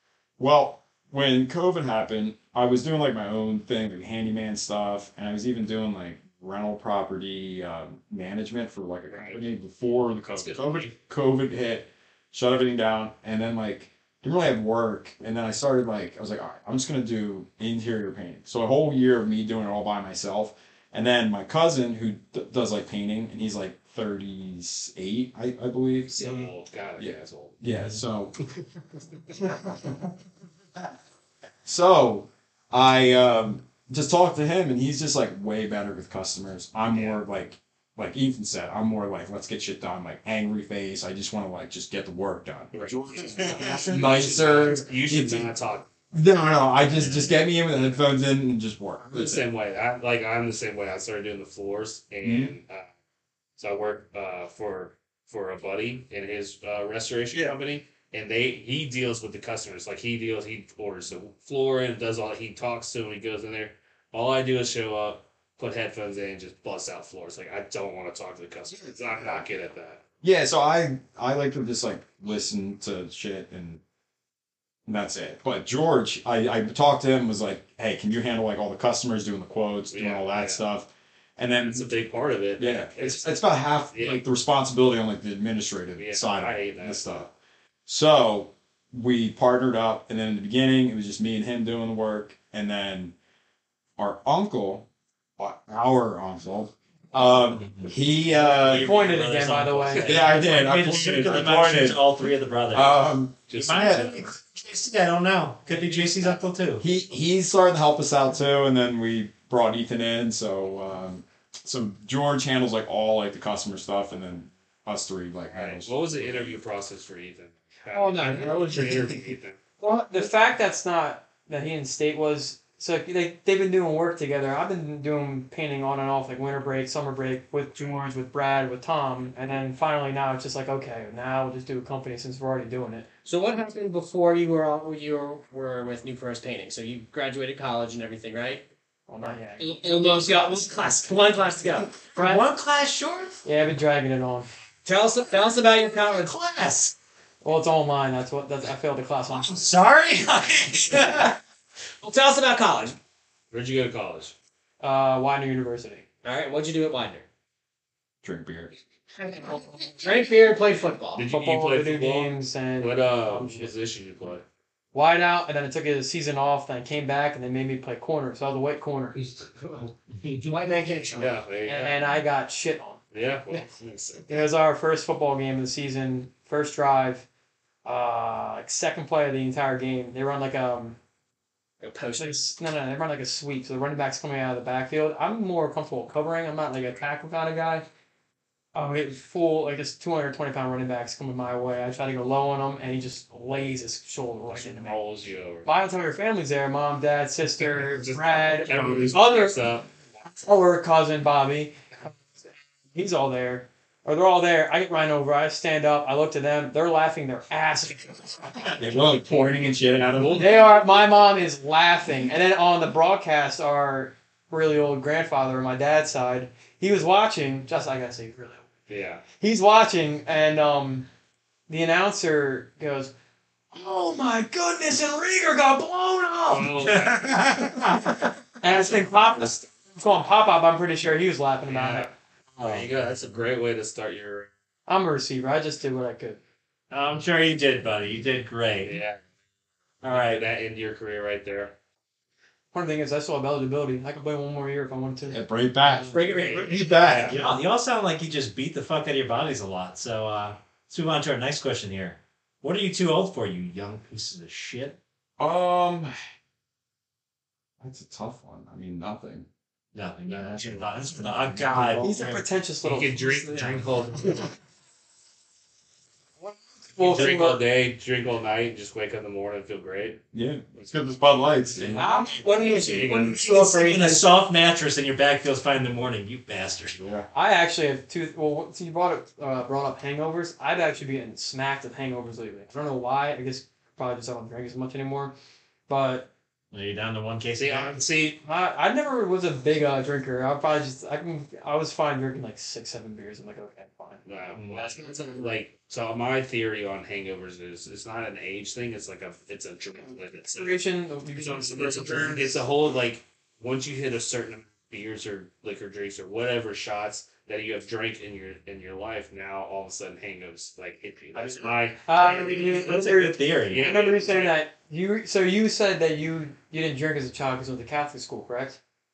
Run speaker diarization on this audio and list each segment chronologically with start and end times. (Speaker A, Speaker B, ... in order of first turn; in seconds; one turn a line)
Speaker A: 0.4-26.4
Speaker B: 9.1-9.4
Speaker B: 10.3-10.9
Speaker B: 26.1-27.6
Speaker A: 27.0-28.3
Speaker A: 29.3-30.1
Speaker A: 31.6-45.5
Speaker B: 36.9-37.2
Speaker B: 42.7-45.9
Speaker C: 43.4-44.0
Speaker A: 46.1-49.4
Speaker B: 46.9-48.0
Speaker B: 49.1-52.8
Speaker A: 52.2-52.5
Speaker B: 53.6-70.0
Speaker A: 70.2-73.8
Speaker A: 74.8-81.9
Speaker B: 79.9-80.6
Speaker B: 81.5-84.2
Speaker A: 82.6-87.3
Speaker B: 86.0-87.0
Speaker A: 87.8-93.1
Speaker A: 94.0-99.0
Speaker C: 97.5-106.8
Speaker D: 98.7-100.3
Speaker B: 99.9-100.3
Speaker A: 100.0-102.1
Speaker A: 102.7-104.3
Speaker B: 103.5-104.2
Speaker B: 105.7-106.4
Speaker A: 106.8-116.6
Speaker B: 115.5-119.6
Speaker E: 117.9-118.6
Speaker A: 118.4-119.0
Speaker D: 119.8-133.1
Speaker E: 133.2-138.7
Speaker D: 139.1-139.7
Speaker E: 139.2-142.2
Speaker D: 142.2-142.4
Speaker C: 142.2-143.4
Speaker D: 143.4-144.5
Speaker E: 144.8-146.7
Speaker C: 146.6-146.9
Speaker D: 147.4-149.6
Speaker C: 149.3-151.3
Speaker E: 152.0-152.9
Speaker B: 153.5-154.3
Speaker D: 154.8-156.0
Speaker E: 156.2-157.2
Speaker A: 158.2-158.7
Speaker E: 159.2-161.2
Speaker B: 161.1-164.4
Speaker D: 161.3-163.7
Speaker D: 164.9-169.2
Speaker E: 169.2-169.9
Speaker E: 170.4-171.3
Speaker B: 171.2-172.0
Speaker D: 171.7-173.0
Speaker B: 173.1-174.2
Speaker D: 174.3-177.2
Speaker D: 177.8-181.0
Speaker E: 181.8-182.4
Speaker D: 182.2-187.8
Speaker D: 188.7-195.0
Speaker B: 194.5-195.7
Speaker D: 195.6-199.6
Speaker B: 197.6-199.9
Speaker D: 200.2-202.2
Speaker D: 202.9-209.4
Speaker A: 208.8-210.5
Speaker B: 210.1-210.6
Speaker D: 210.3-218.7
Speaker B: 218.9-219.2
Speaker D: 219.4-221.1
Speaker D: 221.7-223.1
Speaker D: 223.7-226.7
Speaker B: 226.5-227.4
Speaker C: 226.8-227.8
Speaker D: 228.6-232.1
Speaker B: 231.7-234.5
Speaker C: 232.6-232.8
Speaker D: 234.9-236.4
Speaker C: 236.9-239.0
Speaker B: 238.8-239.2
Speaker C: 240.0-240.4
Speaker B: 240.1-241.7
Speaker D: 242.7-246.4
Speaker A: 245.3-247.4
Speaker E: 246.1-246.8
Speaker B: 247.0-247.4
Speaker C: 247.2-255.0
Speaker A: 255.4-256.1
Speaker A: 257.8-259.5
Speaker C: 259.9-262.4
Speaker B: 260.2-261.1
Speaker A: 261.8-262.3
Speaker D: 262.0-263.5
Speaker B: 262.8-264.5
Speaker E: 263.6-264.0
Speaker D: 266.4-267.6
Speaker B: 267.0-270.2
Speaker A: 270.3-272.1
Speaker D: 271.9-272.4
Speaker E: 272.0-274.3
Speaker B: 272.8-273.4
Speaker C: 273.1-277.0
Speaker A: 277.0-277.2
Speaker D: 277.3-285.3
Speaker D: 285.9-286.3
Speaker C: 286.7-288.0
Speaker B: 287.6-288.4
Speaker D: 288.4-294.2
Speaker B: 294.2-300.8
Speaker C: 294.5-294.9
Speaker D: 294.8-295.0
Speaker D: 300.5-302.5
Speaker B: 301.4-312.7
Speaker D: 312.0-318.8
Speaker C: 312.2-313.8
Speaker B: 313.7-314.6